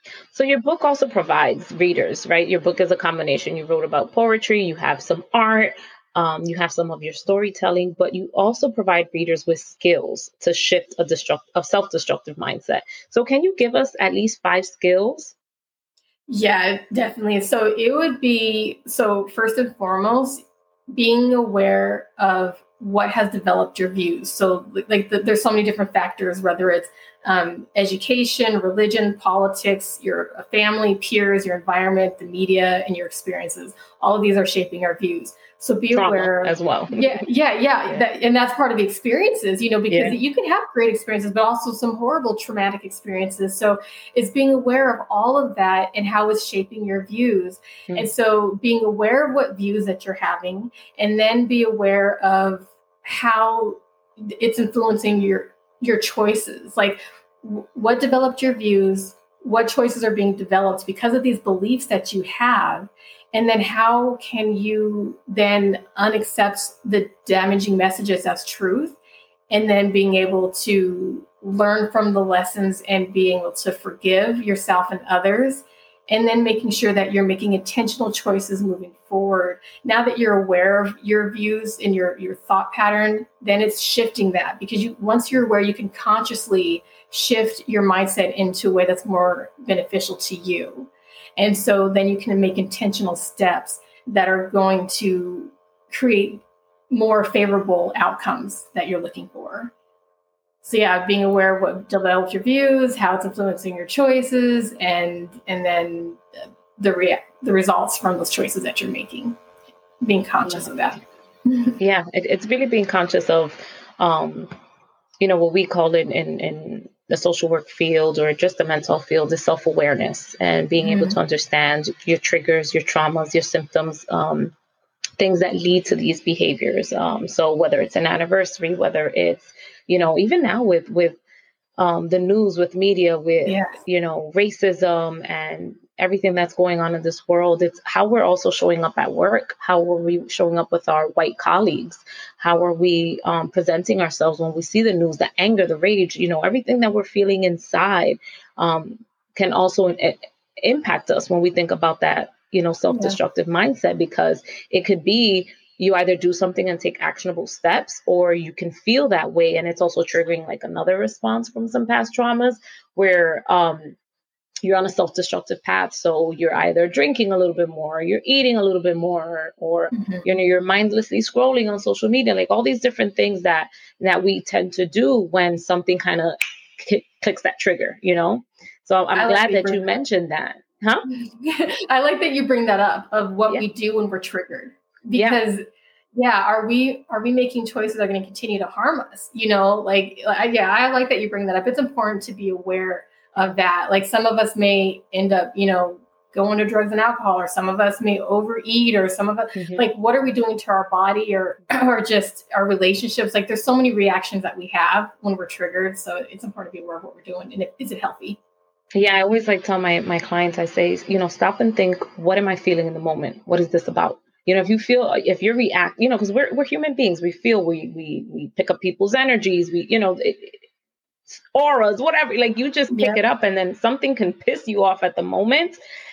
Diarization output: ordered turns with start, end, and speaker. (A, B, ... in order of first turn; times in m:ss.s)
0:00.3-0:15.4 A
0:16.3-1:09.0 B
0:36.0-0:37.2 A
0:39.9-0:40.2 A
1:09.5-1:39.7 B
1:40.6-1:46.2 B
1:46.8-1:49.4 B
1:50.0-1:51.8 B
1:51.8-1:54.5 A
1:55.2-2:04.5 A
2:00.8-2:01.2 B
2:05.2-2:11.2 A
2:11.8-2:44.0 A
2:13.4-2:13.8 B
2:32.9-2:33.2 B
2:44.6-3:01.1 A
2:49.9-2:50.2 B
2:59.2-2:59.8 B
3:01.1-3:05.6 B
3:05.2-3:05.4 A
3:06.2-3:28.4 B
3:19.6-3:19.8 A
3:29.0-3:40.6 A
3:41.3-3:45.8 A
3:42.9-3:43.2 B